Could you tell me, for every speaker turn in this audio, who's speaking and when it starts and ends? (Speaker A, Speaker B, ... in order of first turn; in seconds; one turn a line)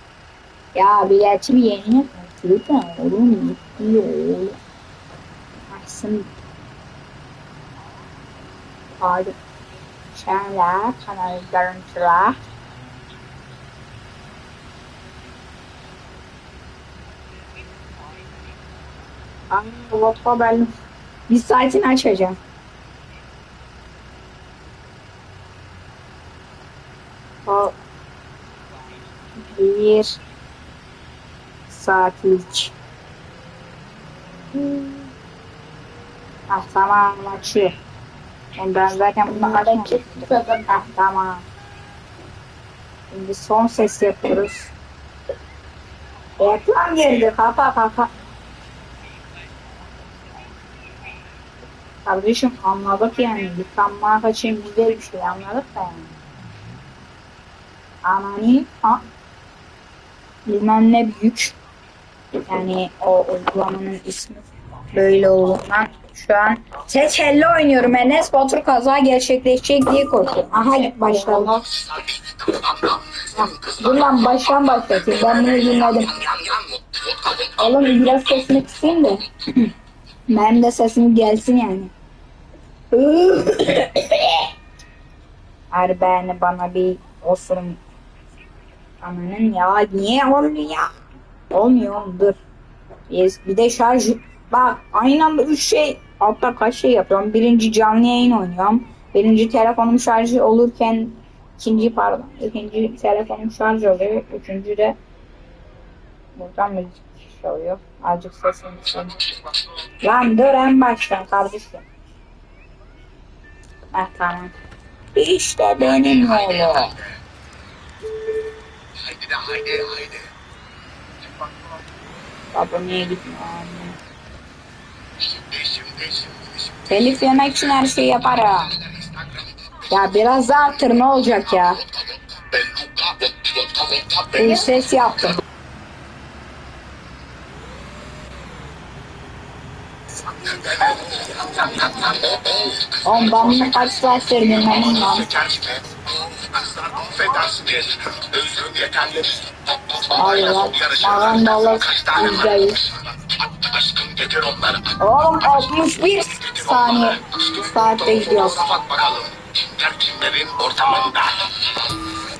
Speaker A: 0.7-4.6
Speaker A: 5.7-6.3
Speaker A: 9.0-9.4
Speaker A: 10.1-12.4
Speaker A: 19.5-20.7
Speaker A: 21.3-22.4
Speaker A: 27.5-27.7
Speaker A: 29.4-30.1
Speaker A: 31.7-32.7
Speaker A: 36.5-37.7
Speaker A: 38.6-41.5
Speaker A: 43.1-44.7
Speaker A: 46.4-48.1
Speaker A: 52.0-56.1
Speaker A: 58.0-59.0
Speaker A: 60.5-61.5
Speaker A: 62.5-71.6
Speaker A: 73.1-76.2
Speaker B: 76.4-76.7
Speaker A: 77.4-79.7
Speaker A: 80.3-81.9
Speaker A: 82.9-84.5
Speaker A: 85.7-87.8
Speaker A: 89.0-90.9
Speaker A: 91.5-92.4
Speaker A: 93.1-105.0
Speaker A: 106.3-109.2
Speaker A: 110.0-111.8
Speaker A: 113.9-114.5
Speaker A: 115.1-117.0
Speaker B: 119.0-120.3
Speaker A: 122.5-124.0
Speaker B: 125.3-126.6
Speaker A: 126.9-128.8
Speaker A: 129.9-131.8
Speaker B: 132.3-134.3
Speaker A: 134.3-135.4
Speaker B: 140.4-142.3
Speaker A: 143.0-145.4
Speaker B: 145.4-149.6
Speaker A: 150.0-152.9
Speaker B: 153.5-154.9
Speaker A: 154.9-159.0
Speaker B: 158.9-161.7